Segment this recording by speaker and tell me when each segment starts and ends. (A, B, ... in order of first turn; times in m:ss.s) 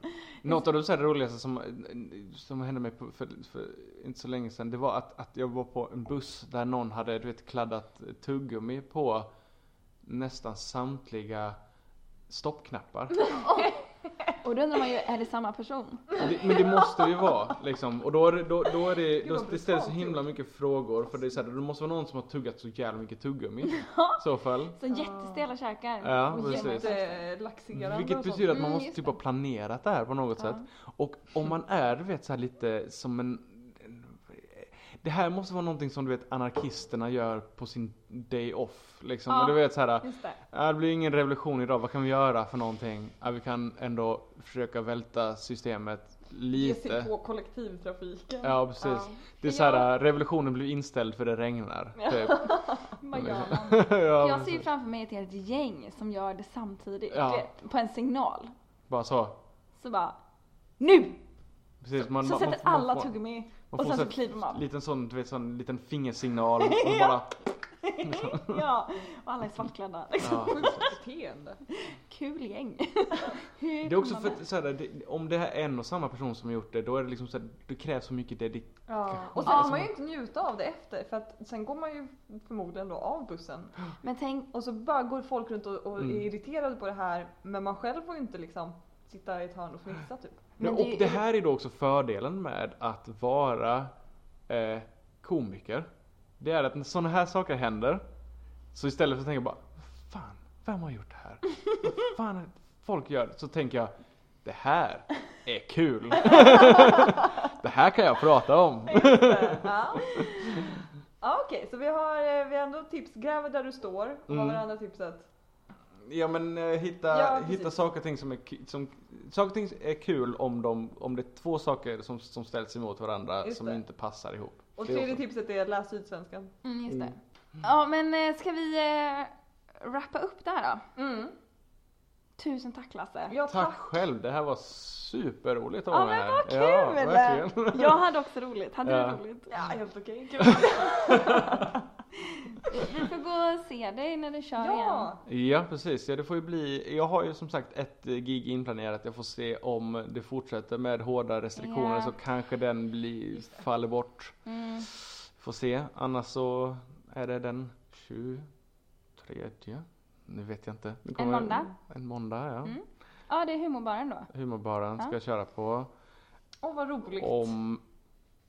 0:00.4-0:09.3 A
0:10.0-0:11.6 A
0:12.3-0:13.3 A
0:13.3-0:13.8 B
0:14.4-0:16.2 B
0:16.2-0:24.8 A
0:19.1-0:20.3 C
0:23.7-0:24.2 B
0:24.7-0:27.2 B
0:24.9-0:25.5 C
0:26.0-0:26.9 A
0:26.3-0:28.6 C
0:27.7-0:47.1 A
0:28.5-0:29.2 B
0:39.3-0:40.4 B
0:46.5-0:48.6 C
0:48.4-0:52.5 A
0:48.8-0:49.9 B
0:52.0-0:52.9 C
0:52.9-0:58.5 B
0:53.1-0:54.7 A
0:57.1-0:57.5 A
0:58.9-0:59.4 A
0:59.8-1:00.2 B
1:00.8-1:01.2 B
1:01.8-1:03.1 A
1:02.0-1:04.6 B
1:03.7-1:07.4 A
1:06.6-1:07.2 B
1:07.8-1:10.9 B
1:08.0-1:08.6 A
1:10.2-1:10.9 A
1:10.5-1:11.6 C
1:11.9-1:14.4 B
1:13.8-1:19.9 A
1:18.9-1:23.8 C
1:19.4-1:19.8 B
1:24.0-1:24.5 B
1:24.5-1:30.6 C
1:26.0-1:26.3 A
1:30.6-1:33.9 A
1:30.6-1:31.2 B
1:34.5-1:35.9 A
1:36.4-1:38.0 A
1:38.7-1:43.9 A
1:44.4-1:50.3 A
1:46.3-1:47.0 C
1:48.9-1:50.6 C
1:51.2-1:55.3 C
1:54.3-1:54.6 A
1:56.0-2:05.2 A
1:57.1-1:57.7 C
2:03.4-2:03.8 C
2:04.8-2:06.5 C
2:06.6-2:10.9 B
2:06.9-2:07.1 A
2:11.0-2:11.3 C
2:12.4-2:13.4 B
2:13.3-2:13.8 C
2:13.5-2:18.0 A
2:15.9-2:19.5 B
2:18.8-2:19.2 A
2:19.5-2:21.8 C
2:20.4-2:21.7 A
2:22.4-2:25.1 B
2:24.6-2:25.2 C
2:25.2-2:38.5 A
2:31.6-2:32.1 B
2:34.5-2:34.9 B
2:39.2-2:42.8 A
2:41.2-2:41.7 B
2:42.6-2:44.3 B
2:44.3-2:45.9 A
2:46.6-2:47.5 C
2:47.2-2:47.8 A